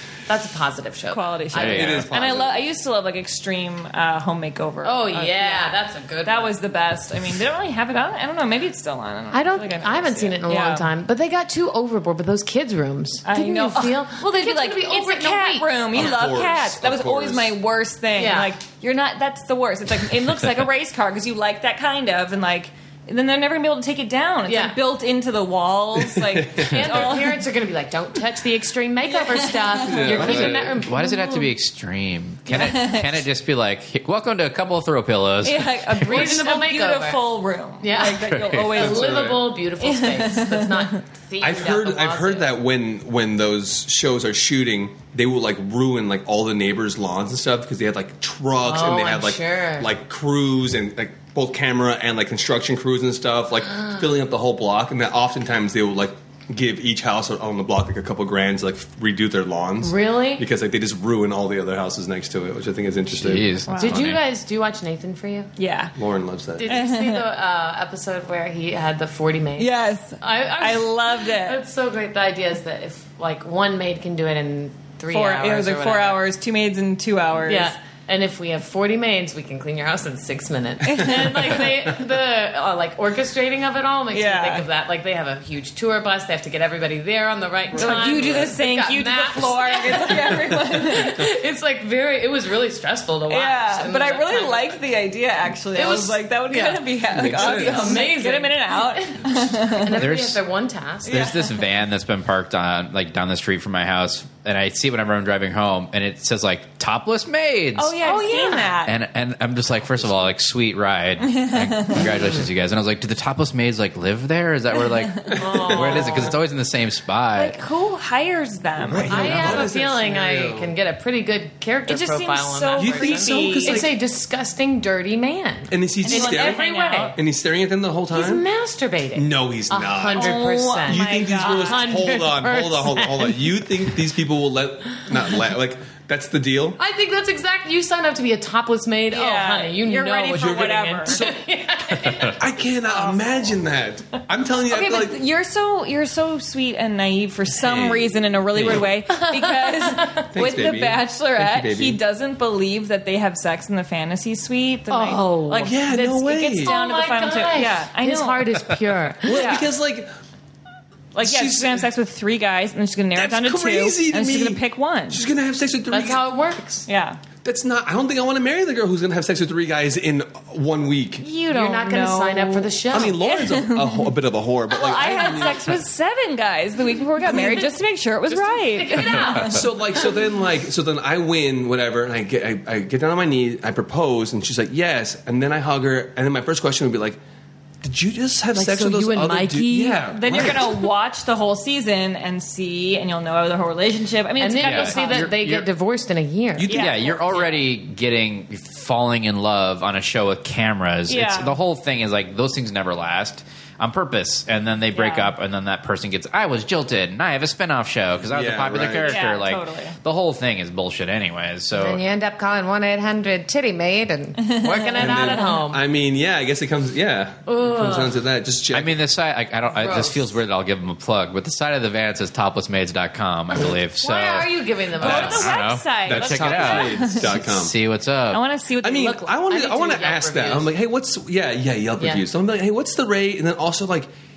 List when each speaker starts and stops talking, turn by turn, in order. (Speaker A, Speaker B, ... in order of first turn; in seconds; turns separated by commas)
Speaker A: 0.3-2.1, Speaker B: 1.1-10.9, Speaker C: 1.5-2.1, Speaker D: 1.6-2.6, Speaker A: 4.8-6.6, Speaker A: 9.3-16.0, Speaker B: 13.2-27.4, Speaker D: 15.9-17.6, Speaker A: 18.1-18.5, Speaker A: 24.5-24.8, Speaker D: 26.2-26.7, Speaker A: 26.6-31.5, Speaker B: 29.1-30.4, Speaker D: 29.8-30.8, Speaker C: 30.1-36.2, Speaker B: 32.5-33.2, Speaker B: 35.4-41.0, Speaker A: 36.0-37.3, Speaker A: 37.8-42.6, Speaker C: 38.3-38.8, Speaker D: 38.8-39.5, Speaker D: 41.4-63.5, Speaker A: 48.6-49.9, Speaker A: 59.8-60.5, Speaker C: 63.1-64.2, Speaker B: 63.7-64.0, Speaker A: 63.8-65.5, Speaker B: 65.6-66.0, Speaker D: 66.0-66.7, Speaker A: 66.6-76.2, Speaker B: 66.6-67.2, Speaker B: 69.6-71.6, Speaker B: 75.1-77.7, Speaker A: 77.5-94.8, Speaker B: 80.9-81.7, Speaker B: 84.1-84.7, Speaker D: 87.7-88.5, Speaker B: 87.8-91.3, Speaker B: 93.3-100.0, Speaker A: 95.7-101.2, Speaker D: 97.1-98.0, Speaker C: 100.0-100.4, Speaker B: 101.1-101.5, Speaker C: 101.1-108.0, Speaker B: 107.8-109.0, Speaker A: 108.0-108.8, Speaker C: 108.9-117.6, Speaker B: 111.2-112.1, Speaker B: 115.2-116.2, Speaker D: 115.3-116.2, Speaker A: 115.3-116.4, Speaker B: 117.3-119.5, Speaker D: 118.8-120.7, Speaker A: 119.0-127.2, Speaker C: 119.2-119.6, Speaker B: 121.9-123.9, Speaker D: 122.8-123.9, Speaker D: 125.7-128.4, Speaker B: 126.1-127.2, Speaker A: 128.1-133.5, Speaker D: 129.2-136.8, Speaker B: 130.1-132.1, Speaker A: 136.8-142.4, Speaker B: 139.1-141.2, Speaker D: 140.4-141.4, Speaker C: 141.9-142.3, Speaker D: 142.3-145.2, Speaker B: 142.9-143.6, Speaker B: 144.7-158.6, Speaker D: 147.6-148.9, Speaker A: 149.1-150.3, Speaker D: 150.3-152.0, Speaker A: 154.9-159.6, Speaker D: 155.7-156.8, Speaker D: 159.2-160.1, Speaker B: 159.3-159.7, Speaker B: 161.1-165.2, Speaker D: 161.2-161.9, Speaker D: 163.2-166.2, Speaker A: 165.9-166.9, Speaker B: 166.9-167.2, Speaker D: 167.4-171.2, Speaker B: 171.2-174.2, Speaker A: 171.5-173.2, Speaker D: 172.9-175.8, Speaker B: 174.7-179.7, Speaker D: 177.3-177.7, Speaker D: 178.3-187.2, Speaker A: 178.4-179.7, Speaker D: 187.8-190.9, Speaker A: 188.5-190.7, Speaker B: 190.1-195.3, Speaker A: 194.4-197.5, Speaker C: 194.6-195.7, Speaker D: 196.6-196.9, Speaker C: 196.7-212.0, Speaker B: 196.7-197.5, Speaker B: 201.1-201.6, Speaker B: 204.9-205.3, Speaker D: 208.3-209.2, Speaker B: 209.0-210.0, Speaker A: 211.8-215.8, Speaker B: 214.4-215.6, Speaker D: 215.0-219.0, Speaker A: 217.5-218.2, Speaker C: 218.7-228.4, Speaker A: 219.7-220.3, Speaker A: 223.6-225.5, Speaker B: 225.0-227.4, Speaker D: 226.1-227.7, Speaker B: 228.3-229.3, Speaker D: 228.8-234.1, Speaker A: 229.2-230.7